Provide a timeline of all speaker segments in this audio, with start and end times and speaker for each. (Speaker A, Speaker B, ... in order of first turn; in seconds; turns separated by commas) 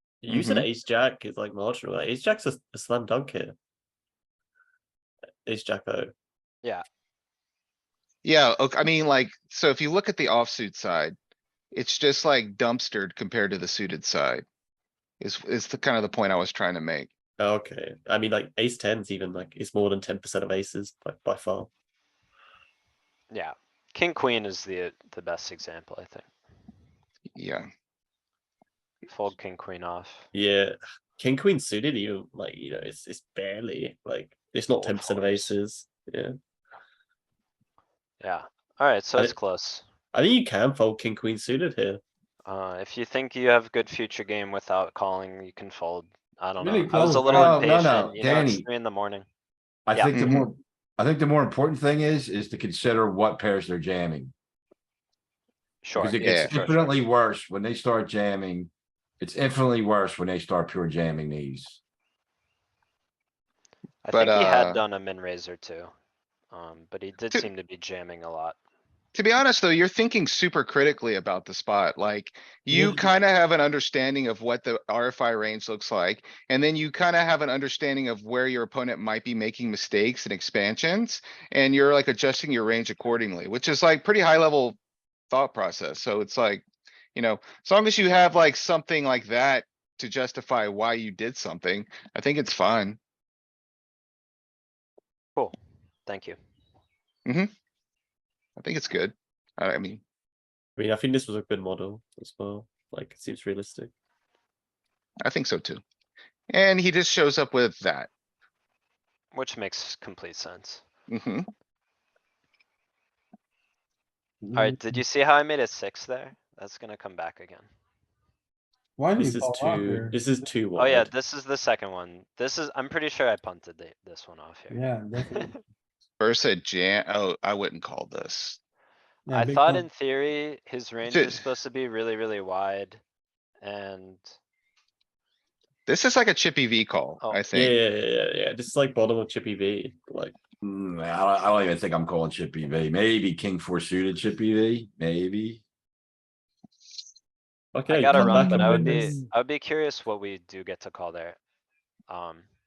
Speaker A: 0.2-3.6, Speaker B: 0.3-0.7, Speaker A: 5.5-6.1, Speaker B: 8.2-11.2, Speaker B: 11.7-14.4, Speaker B: 15.2-17.1, Speaker A: 17.4-21.7, Speaker C: 23.3-26.3, Speaker B: 27.4-27.7, Speaker C: 29.1-30.3, Speaker A: 30.3-36.3, Speaker C: 34.8-35.5, Speaker C: 38.2-39.9, Speaker A: 40.1-42.0, Speaker C: 42.5-49.3, Speaker D: 46.6-47.6, Speaker E: 46.9-48.6, Speaker E: 49.9-54.3, Speaker B: 50.1-50.5, Speaker C: 55.8-57.0, Speaker E: 56.0-61.8, Speaker B: 56.2-56.7, Speaker C: 64.0-65.9, Speaker B: 64.1-64.8, Speaker C: 66.5-68.6, Speaker B: 69.2-84.8, Speaker B: 85.3-86.6, Speaker B: 87.2-93.0, Speaker C: 95.4-96.4, Speaker B: 98.6-100.0, Speaker A: 100.8-103.9, Speaker B: 105.2-105.8, Speaker B: 106.5-108.1, Speaker C: 109.3-110.8, Speaker B: 111.1-111.5, Speaker D: 114.4-115.0, Speaker C: 114.5-117.7, Speaker D: 119.0-120.2, Speaker A: 119.2-121.1, Speaker C: 120.8-125.6, Speaker D: 124.7-125.5, Speaker B: 126.2-128.6, Speaker D: 129.3-129.9, Speaker C: 129.3-133.0, Speaker B: 131.1-131.5, Speaker C: 133.6-134.3, Speaker B: 135.9-137.8, Speaker C: 137.2-137.5, Speaker A: 137.5-140.4, Speaker E: 140.6-145.6, Speaker A: 147.7-149.2, Speaker C: 147.9-151.4, Speaker C: 152.1-152.5